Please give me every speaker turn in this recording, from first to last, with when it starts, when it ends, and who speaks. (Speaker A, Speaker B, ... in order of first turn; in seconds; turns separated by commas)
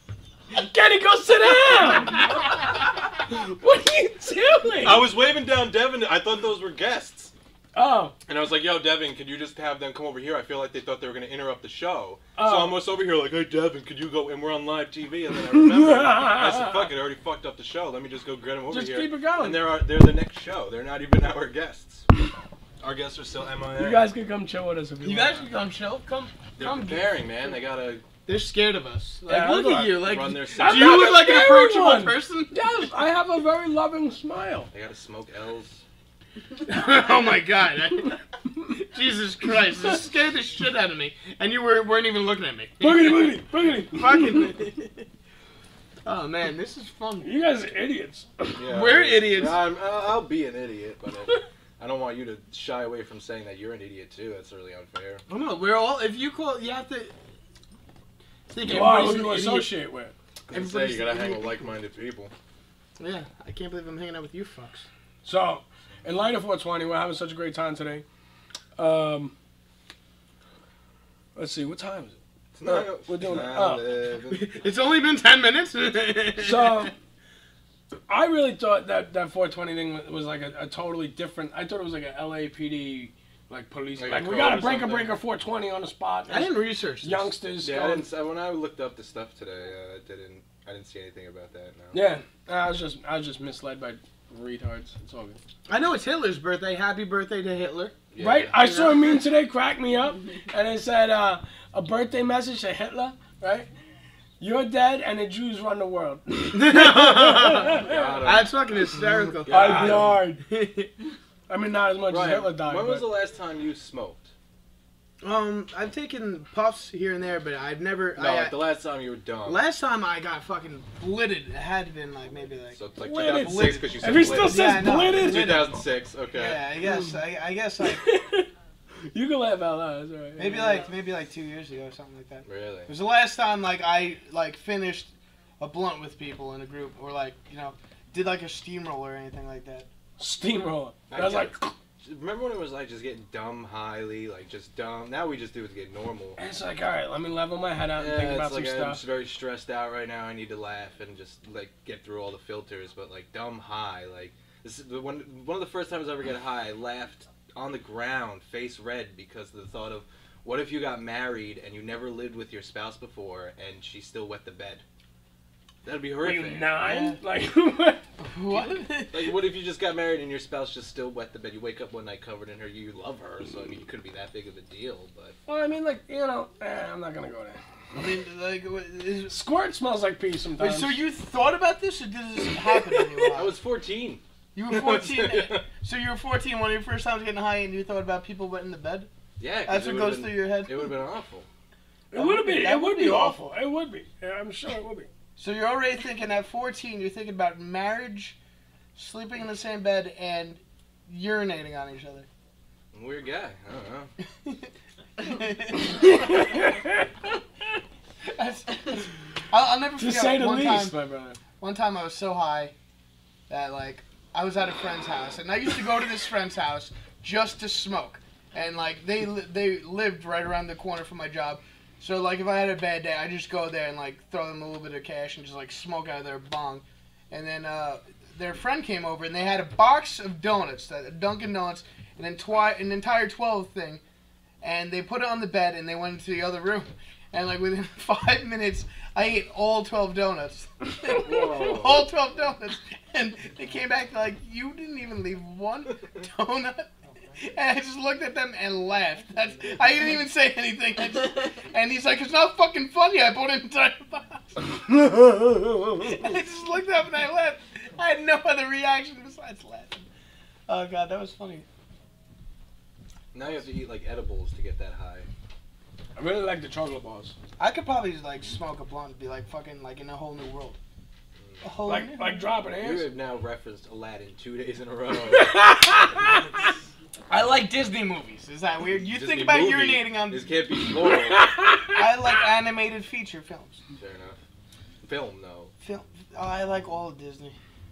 Speaker A: 0.5-2.7, Speaker A: 3.3-5.1, Speaker B: 4.8-7.3, Speaker A: 7.7-8.2, Speaker B: 8.3-22.1, Speaker A: 12.4-12.8, Speaker A: 15.6-16.9, Speaker A: 18.7-19.6, Speaker B: 22.8-24.0, Speaker A: 23.8-25.5, Speaker C: 25.0-27.6, Speaker B: 26.6-28.0, Speaker C: 28.3-32.7, Speaker A: 29.3-30.1, Speaker B: 29.9-31.2, Speaker A: 30.6-34.7, Speaker B: 34.7-35.8, Speaker C: 36.6-38.2, Speaker C: 38.8-45.0, Speaker A: 42.8-44.5, Speaker C: 46.0-47.3, Speaker A: 47.2-48.6, Speaker B: 48.6-55.2, Speaker C: 48.7-49.6, Speaker C: 55.3-57.1, Speaker C: 58.5-59.7, Speaker A: 58.6-60.1, Speaker B: 60.5-62.3, Speaker C: 60.5-61.7, Speaker C: 63.0-64.9, Speaker A: 65.2-68.0, Speaker A: 68.8-69.3, Speaker A: 71.3-73.9, Speaker B: 72.6-74.6, Speaker C: 74.3-76.9, Speaker A: 76.4-76.9, Speaker A: 78.1-88.1, Speaker B: 84.0-85.2, Speaker C: 86.3-87.3, Speaker B: 87.6-92.1, Speaker A: 91.9-95.4, Speaker C: 95.7-98.0, Speaker B: 98.1-98.9, Speaker A: 98.2-103.7, Speaker C: 98.6-99.0, Speaker A: 104.4-108.2, Speaker C: 106.5-110.9, Speaker B: 107.8-110.2, Speaker A: 109.5-110.4, Speaker A: 111.5-113.1, Speaker B: 112.1-114.3, Speaker C: 115.2-118.6, Speaker B: 118.2-119.7, Speaker C: 119.5-122.8, Speaker B: 122.7-126.7, Speaker A: 123.0-125.8, Speaker C: 123.4-125.4, Speaker C: 126.3-128.0, Speaker A: 126.8-127.2, Speaker A: 127.8-128.5, Speaker A: 129.1-130.9, Speaker C: 130.4-139.9, Speaker B: 132.5-132.9, Speaker A: 140.2-141.8, Speaker B: 141.1-146.4, Speaker A: 146.4-149.0, Speaker B: 148.0-164.8, Speaker B: 165.8-166.7, Speaker A: 166.2-168.1, Speaker C: 166.8-167.2, Speaker C: 168.2-169.3, Speaker B: 168.5-175.4, Speaker A: 175.5-177.6, Speaker C: 177.9-179.4, Speaker A: 179.3-181.0, Speaker C: 180.6-183.6, Speaker B: 183.3-185.7, Speaker C: 184.6-189.1, Speaker B: 189.4-191.5, Speaker C: 189.7-191.0, Speaker A: 192.1-195.1, Speaker C: 192.1-193.4, Speaker C: 195.4-198.4, Speaker C: 199.0-202.3, Speaker B: 202.9-204.1, Speaker C: 204.4-206.4, Speaker A: 206.0-207.1, Speaker C: 208.2-210.9, Speaker A: 210.0-211.3, Speaker C: 211.6-212.7, Speaker C: 213.5-234.0, Speaker C: 234.6-254.6, Speaker B: 241.1-242.1, Speaker A: 255.1-255.8, Speaker C: 256.0-260.1, Speaker C: 260.7-261.7, Speaker B: 263.3-265.3, Speaker A: 266.2-267.3, Speaker C: 267.6-270.8, Speaker C: 271.6-272.5, Speaker A: 271.9-273.1, Speaker B: 272.8-275.7, Speaker A: 275.3-276.4, Speaker C: 277.3-280.6, Speaker B: 279.1-281.8, Speaker A: 281.3-282.0, Speaker C: 281.9-283.8, Speaker B: 284.0-284.4, Speaker B: 285.0-285.7, Speaker C: 285.8-287.6